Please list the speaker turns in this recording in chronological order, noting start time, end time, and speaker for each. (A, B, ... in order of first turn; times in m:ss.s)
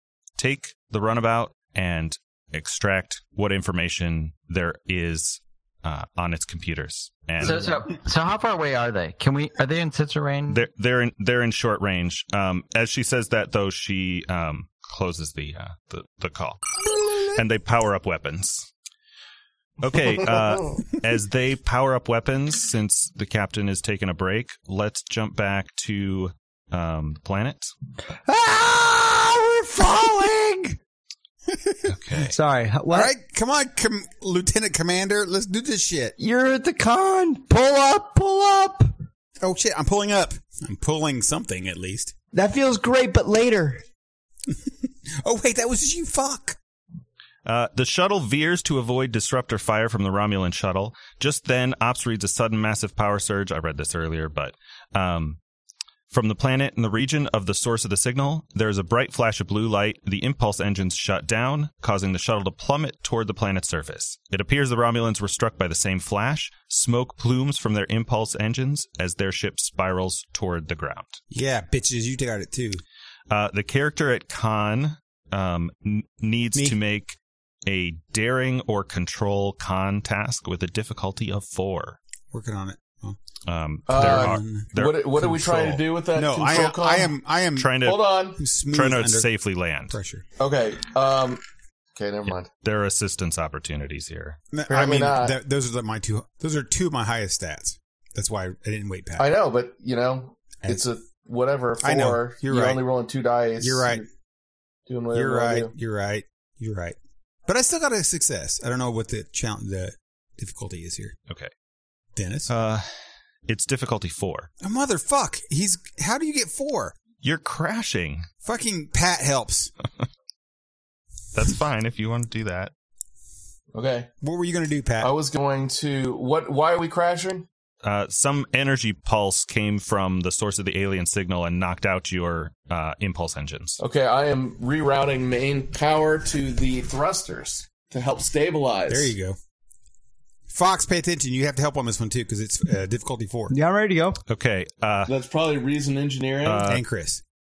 0:00.4-0:07.8 A
0:07.4-0:10.7 B
0:10.5-0:16.8 A
0:16.8-0:17.4 C
0:17.3-0:18.7 A
0:19.8-0:27.7 A
0:28.2-0:30.8 D
0:31.5-0:31.9 C
0:31.8-0:32.4 A
0:32.2-0:33.1 D
0:32.9-0:36.2 C
0:36.2-0:38.9 D
0:39.4-0:42.1 C
0:42.3-0:43.8 D
0:44.5-0:46.6 C
0:47.4-0:55.4 A
0:56.1-1:11.2 A
1:11.3-1:12.8 C
1:13.3-1:22.0 A
1:22.3-1:23.2 C
1:23.5-1:25.8 A
1:23.9-1:27.1 E
1:23.9-1:24.7 C
1:26.1-1:27.8 C
1:27.6-1:28.0 A
1:27.8-1:28.4 E
1:28.4-1:29.3 C
1:28.7-1:30.0 A
1:29.9-1:30.2 C
1:30.4-1:31.4 E
1:31.9-1:32.5 E
1:32.3-1:34.4 A
1:34.5-1:39.3 C
1:34.7-1:35.4 E
1:39.2-1:44.0 E
1:41.8-1:42.8 C
1:43.6-1:44.0 C
1:44.9-1:45.7 E
1:45.1-1:51.1 C
1:52.2-1:52.5 C
1:52.5-1:52.9 A
1:53.5-1:54.5 A
1:54.6-1:56.9 C
1:57.2-1:58.2 A
1:58.4-1:59.7 C
2:01.3-2:02.7 A
2:03.7-2:04.1 E
2:04.2-2:05.1 C
2:05.0-2:07.4 E
2:07.8-2:13.8 A
2:13.8-2:19.1 E
2:18.9-2:19.4 C
2:20.5-2:23.5 C
2:23.5-2:24.2 D
2:24.3-2:25.1 A
2:25.1-2:26.6 E
2:26.4-2:26.8 A
2:26.6-2:27.2 C